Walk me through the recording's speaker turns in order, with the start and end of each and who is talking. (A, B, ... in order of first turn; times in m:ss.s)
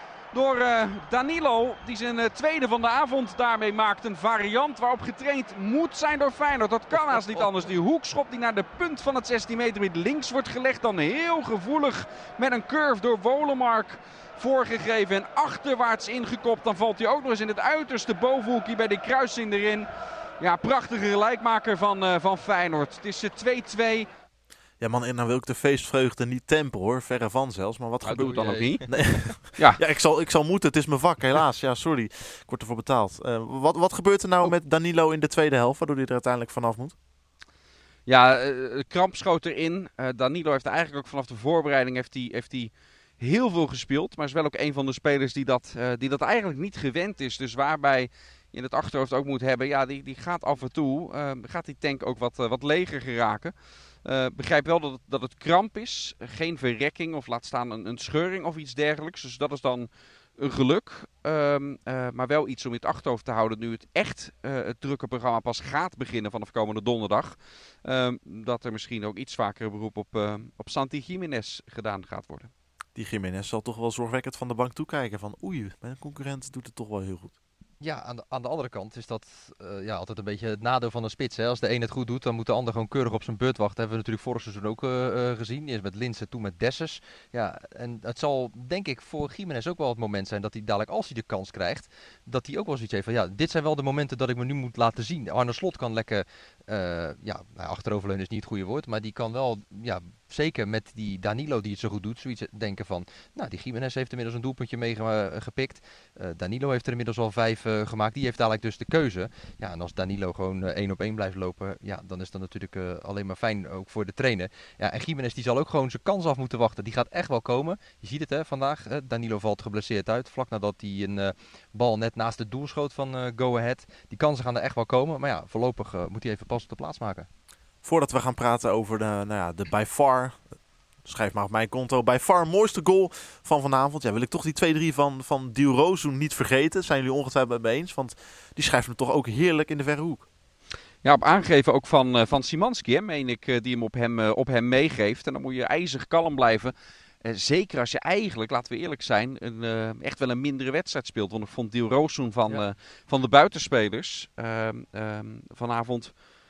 0:00.3-0:19.9 A
0:06.9-0:07.7 B
0:20.4-0:24.1 A
0:24.8-0:36.9 C
0:28.0-0:28.8 A
0:29.6-0:29.8 A
0:38.1-1:12.5 A
1:13.0-1:17.3 C
1:17.8-2:07.3 B
2:07.8-2:10.5 C
2:11.0-2:20.2 C
2:21.0-2:36.1 A